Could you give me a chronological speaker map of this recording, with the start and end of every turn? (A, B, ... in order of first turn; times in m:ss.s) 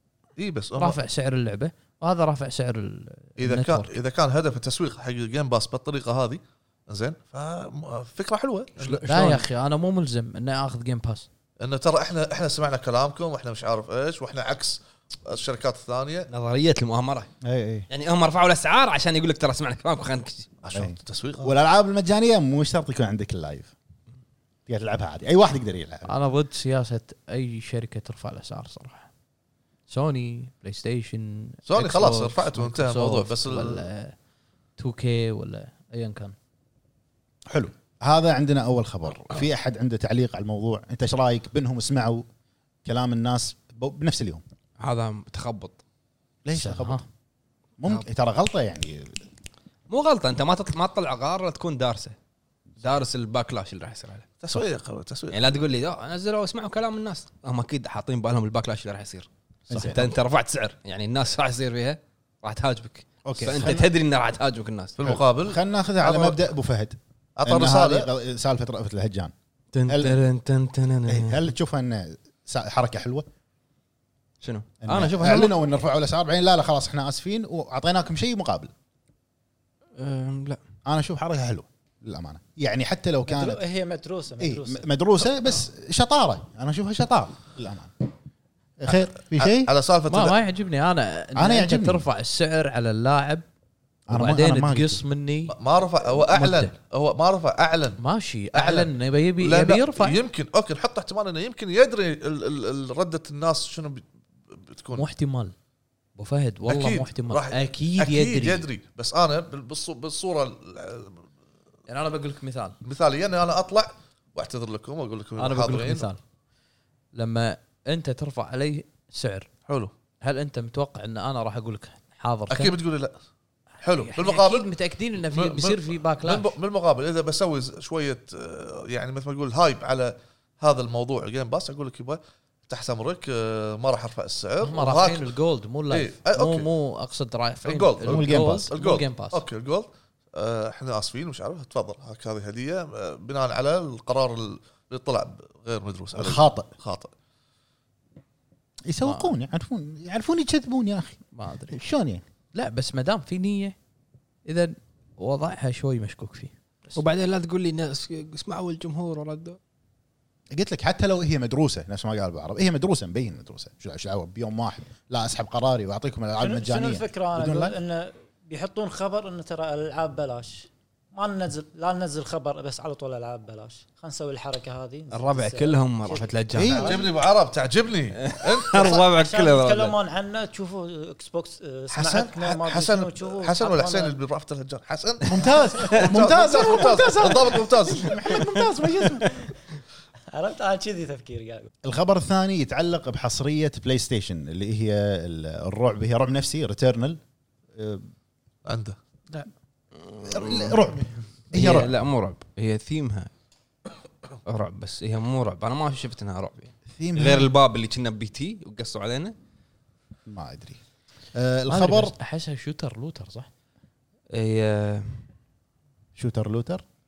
0:00.4-0:01.0 A
0:00.8-0:03.9 B
0:03.4-0:09.4 A
0:08.8-0:09.4 C
0:09.0-0:11.3 B
0:11.6-0:16.3 A
0:16.3-0:17.3 D
0:17.4-0:17.9 C
0:17.9-0:20.5 D
0:20.6-0:21.5 A
0:20.7-0:23.7 C
0:24.7-0:26.1 C
0:26.0-0:29.1 B
0:29.9-0:34.1 B
0:31.7-0:33.8 A
0:34.8-0:36.3 B
0:37.5-0:42.3 C
0:42.8-0:44.4 C
0:44.8-0:45.8 D
0:46.4-0:47.0 C
0:46.5-0:47.0 B
0:47.8-0:49.2 C
0:49.9-0:52.2 D
0:52.8-0:54.3 D
0:54.4-0:55.6 A
0:55.3-1:05.0 D
0:59.7-1:00.0 C
1:03.2-1:03.9 C
1:05.0-1:06.4 A
1:05.0-1:09.3 C
1:07.4-1:08.1 A
1:09.7-1:11.5 D
1:09.9-1:10.2 C
1:11.1-1:13.3 C
1:14.4-1:15.5 D
1:14.8-1:18.7 C
1:20.0-1:20.6 D
1:20.8-1:23.6 C
1:23.3-1:24.9 E
1:24.4-1:27.9 C
1:28.8-1:29.7 C
1:29.4-1:30.4 A
1:30.1-1:33.4 B
1:31.4-1:32.0 C
1:34.1-1:35.0 C
1:34.1-1:35.6 B
1:35.5-1:38.0 A
1:36.2-1:36.7 B
1:38.0-1:40.2 B
1:38.5-1:45.1 A
1:45.0-1:45.5 B
1:46.2-1:48.6 B
1:46.6-1:51.2 A
1:51.9-1:52.8 B
1:52.8-1:56.1 A
1:55.4-1:56.2 B
1:57.1-1:59.5 B
1:59.7-1:59.9 A
2:00.2-2:02.8 B
2:02.5-2:03.2 A
2:03.8-2:04.7 A
2:04.0-2:06.6 B
2:05.3-2:15.3 A
2:14.6-2:19.4 B
2:15.9-2:16.7 A
2:17.6-2:27.1 A
2:18.0-2:18.7 C
2:26.1-2:26.7 C
2:28.8-2:32.2 C
2:29.0-2:29.3 B
2:31.3-2:31.8 B
2:32.5-2:33.8 B
2:34.4-2:36.5 B
2:36.9-2:39.6 D
2:40.5-2:47.7 C
2:46.4-2:57.0 E
2:55.1-2:57.0 D
2:56.5-2:57.0 C
2:56.8-2:59.1 A
2:58.2-2:59.9 D
2:58.9-3:04.1 E
3:01.9-3:08.2 A
3:05.2-3:09.4 C
3:10.3-3:11.7 E
3:11.8-3:17.2 C
3:17.7-3:18.1 C
3:18.6-3:19.0 A
3:20.0-3:20.8 D
3:20.2-3:21.9 C
3:21.5-3:23.3 D
3:24.4-3:29.3 D
3:26.9-3:27.5 C
3:30.2-3:30.8 C
3:31.3-3:32.1 C
3:31.7-3:33.5 B
3:34.3-3:35.2 D
3:36.2-3:36.8 C